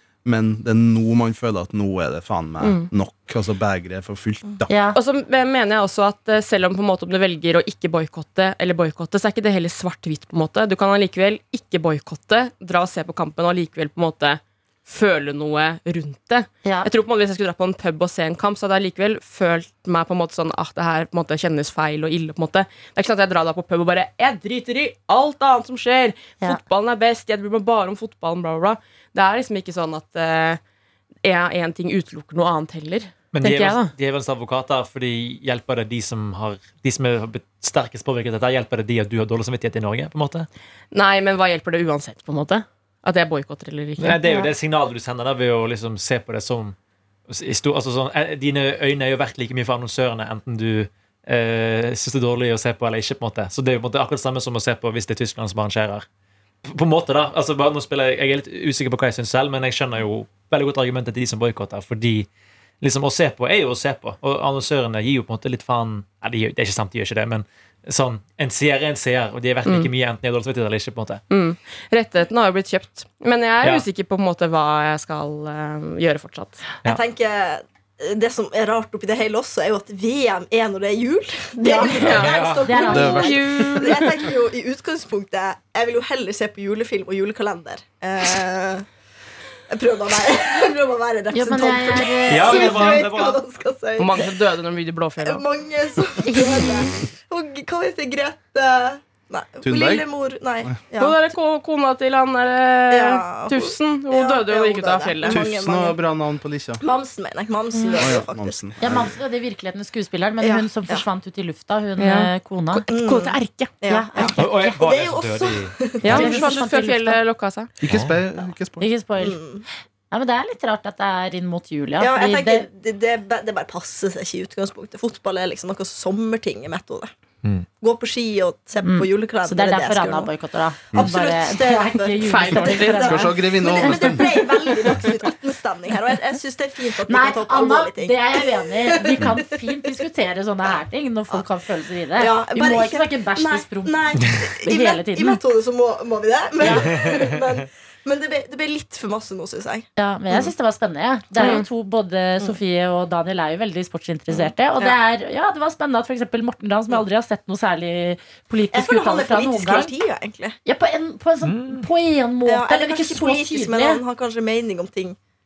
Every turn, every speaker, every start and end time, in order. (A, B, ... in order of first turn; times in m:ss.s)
0:00.2-0:04.7 A
0:02.6-0:02.9 B
0:04.7-0:05.0 C
0:05.0-0:30.6 B
0:16.6-0:16.9 C
0:31.2-0:33.9 B
0:33.3-0:40.5 D
0:40.9-0:44.2 B
0:44.0-0:46.8 D
0:47.3-0:56.1 D
0:56.6-1:02.3 D
1:02.8-1:11.2 D
1:09.6-1:09.9 B
1:11.3-1:16.7 B
1:16.8-1:28.9 E
1:21.6-1:22.1 C
1:21.9-1:24.1 B
1:22.0-1:22.7 D
1:22.6-1:23.5 C
1:22.9-1:23.8 A
1:29.7-1:34.3 E
1:31.3-1:33.1 C
1:32.3-1:33.4 D
1:34.0-1:35.4 B
1:35.2-1:41.2 E
1:39.6-1:40.1 A
1:41.0-1:45.4 B
1:42.9-1:46.0 E
1:45.3-1:46.8 A
1:46.8-1:48.7 E
1:48.0-1:49.1 A
1:48.8-1:52.9 C
1:50.4-1:51.0 E
1:52.0-1:53.7 B
1:52.9-1:56.6 E
1:53.9-1:54.8 C
1:54.4-1:55.8 D
1:56.0-1:57.7 B
1:56.1-1:57.2 C
1:57.8-1:58.9 A
1:57.9-1:58.2 D
1:58.8-1:59.4 C
1:59.2-1:59.6 E
2:00.1-2:02.7 C
2:02.0-2:07.1 E
2:07.8-2:10.3 E
2:08.8-2:14.1 C
2:10.9-2:19.4 E
2:12.2-2:13.3 B
2:13.0-2:14.4 A
2:17.1-2:25.4 C
2:22.2-2:30.5 E
2:26.6-2:26.9 C
2:26.7-2:27.3 D
2:30.0-2:39.9 C
2:31.4-2:31.6 B
2:34.3-2:35.0 E
2:38.7-2:40.6 E
2:40.6-2:44.0 C
2:41.4-2:41.9 D
2:42.5-2:45.2 E